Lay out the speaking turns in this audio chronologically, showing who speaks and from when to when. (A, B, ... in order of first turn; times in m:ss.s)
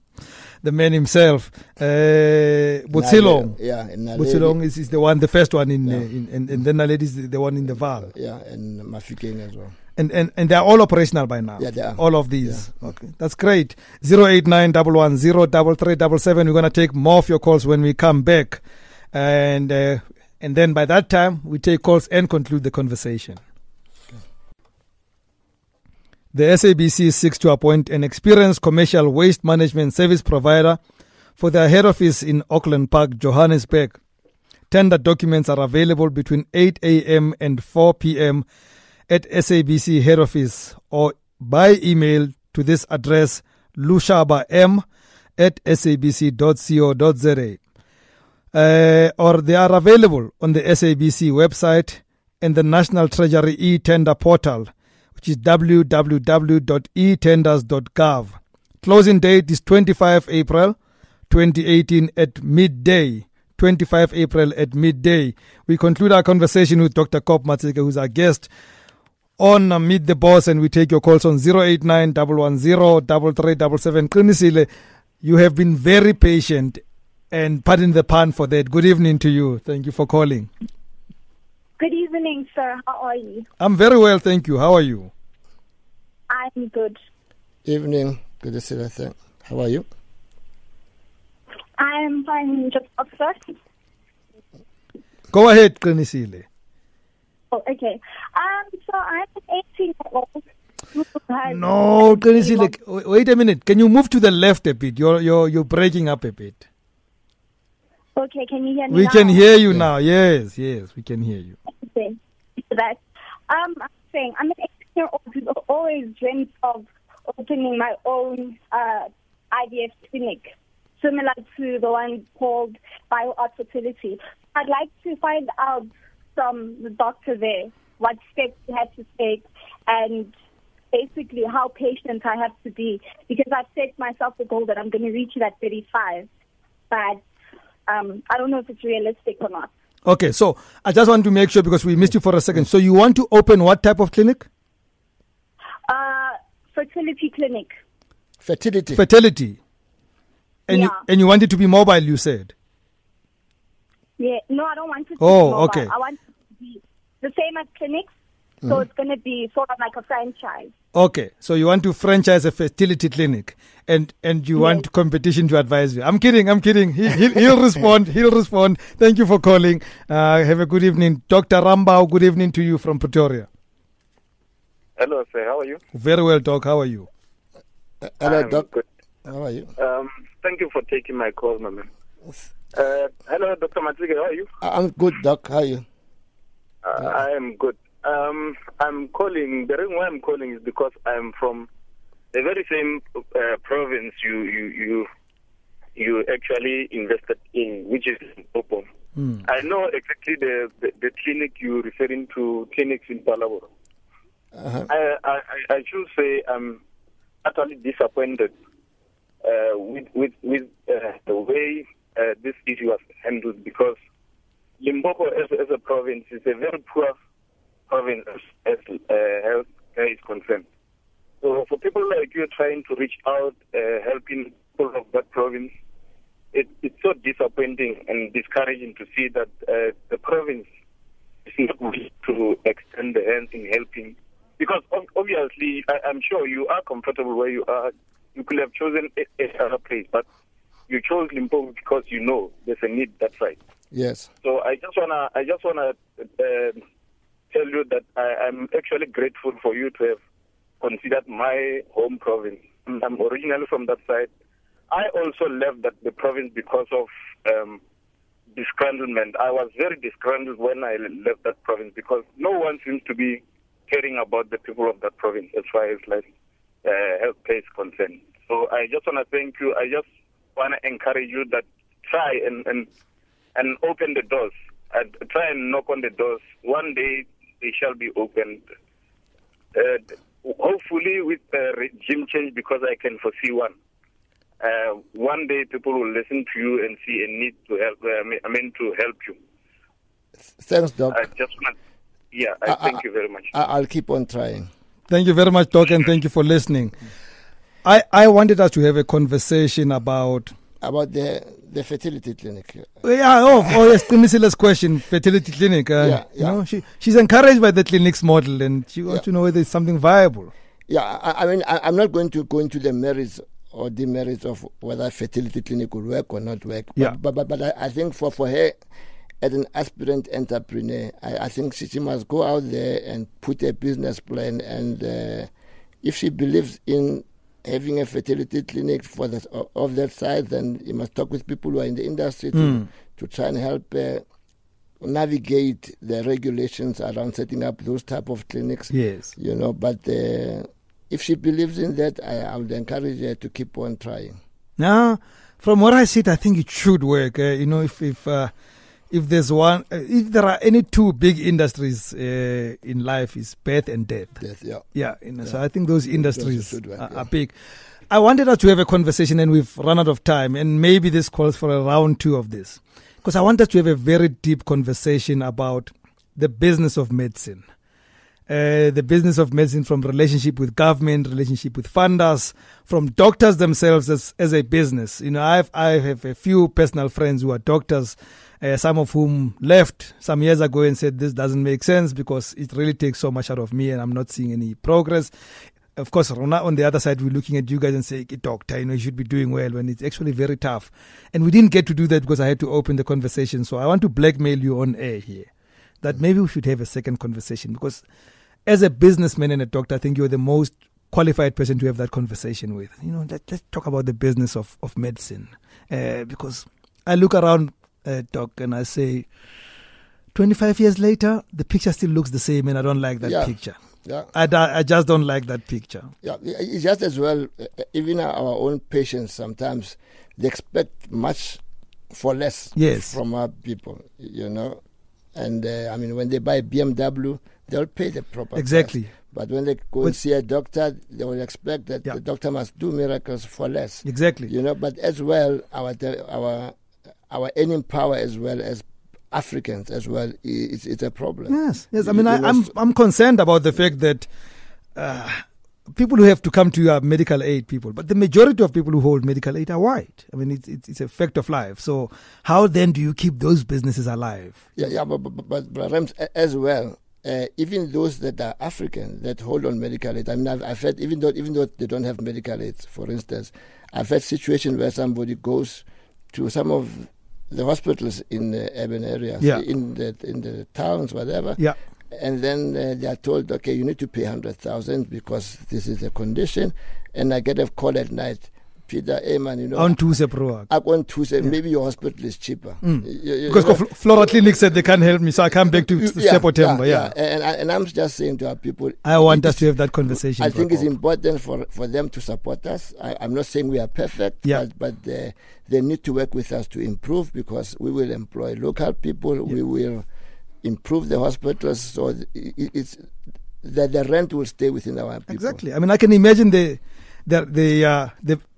0:00.6-0:03.6 A
0:02.9-0:04.6 B
0:04.2-0:08.1 A
0:07.7-0:09.8 B
0:10.0-0:23.4 A
0:11.6-0:12.9 B
0:26.3-0:30.8 A
0:31.4-0:34.0 A
0:34.7-0:38.4 A
0:39.1-0:44.8 A
0:45.4-0:47.6 A
0:48.5-1:00.8 A
1:01.3-1:08.5 A
1:09.4-1:14.7 A
1:15.2-1:20.5 A
1:21.8-1:23.4 C
1:23.6-1:25.1 A
1:26.3-1:27.0 C
1:27.6-1:29.9 B
1:31.8-1:33.6 C
1:35.3-1:36.5 A
1:37.5-1:42.7 C
1:41.5-1:46.6 A
1:48.2-1:49.4 C
1:48.9-1:51.6 A
1:51.8-2:10.3 C
2:10.9-2:16.3 C
2:16.9-2:17.2 C
2:17.9-2:19.7 C
2:20.1-2:24.5 A
2:25.9-2:27.8 C
2:28.4-2:29.0 B
2:29.0-2:29.6 A
2:30.7-2:32.5 A
2:30.7-2:31.0 C
2:34.2-2:38.1 C
2:35.2-2:35.9 A
2:38.6-2:40.7 C
2:40.9-2:53.5 A
2:44.6-2:44.9 C
2:55.0-2:55.8 D
2:55.9-2:57.1 A
2:58.0-2:58.7 B
2:58.2-2:58.8 D
2:59.3-2:59.7 B
2:59.8-3:01.9 D
3:02.7-3:04.5 D
3:04.6-3:05.8 B
3:06.8-3:11.7 D
3:12.3-3:15.1 D
3:16.0-3:18.9 D
3:19.4-3:23.7 D
3:24.6-3:24.9 B
3:24.9-3:26.8 D
3:27.4-3:28.5 D
3:29.4-3:34.0 D
3:34.8-3:37.2 D
3:37.9-3:40.6 D
3:41.4-3:45.7 D
3:46.5-3:50.7 D
3:51.5-4:00.2 D
4:00.9-4:03.6 D
4:03.9-4:04.3 B
4:04.4-4:06.8 D
4:07.5-4:10.2 D
4:10.8-4:14.3 D
4:14.9-4:17.8 D
4:18.5-4:26.2 D
4:26.8-4:32.9 D
4:33.6-4:38.6 D
4:39.7-4:43.7 D
4:44.6-4:49.4 D
4:50.6-4:51.2 B
4:51.1-4:51.7 D
4:52.3-4:53.5 D
4:52.7-4:54.7 B
4:55.1-4:57.0 A
4:57.8-5:00.5 A
5:00.8-5:02.9 B
5:03.0-5:10.5 A
5:06.0-5:06.6 B
5:10.9-5:18.8 B
5:19.4-5:25.5 B
5:26.0-5:34.2 B
5:32.5-5:32.9 A
5:35.0-5:44.4 B
5:38.9-5:39.3 A
5:44.8-5:48.5 A
5:49.1-5:54.4 A
5:54.4-5:54.8 B
5:54.9-5:57.5 A
5:56.1-5:57.3 B
5:58.1-6:07.6 A
6:08.5-6:25.3 A
6:26.0-6:35.5 A
6:36.0-6:38.0 A
6:38.7-6:49.3 A
6:50.3-6:53.8 A
6:53.2-6:54.3 B
6:54.3-6:56.1 A
6:56.2-7:04.8 B
7:02.8-7:03.2 A
7:05.3-7:16.8 B
7:08.6-7:09.1 A
7:14.0-7:14.5 A
7:17.3-7:22.7 B
7:21.5-7:24.3 A
7:25.0-7:34.7 A
7:34.8-8:00.0 B
7:59.8-8:00.7 A
8:00.7-8:03.8 B
8:02.8-8:07.1 A
8:05.7-8:20.0 B
8:09.0-8:10.9 A
8:20.6-8:23.1 B
8:23.6-8:25.6 B
8:25.3-8:28.4 A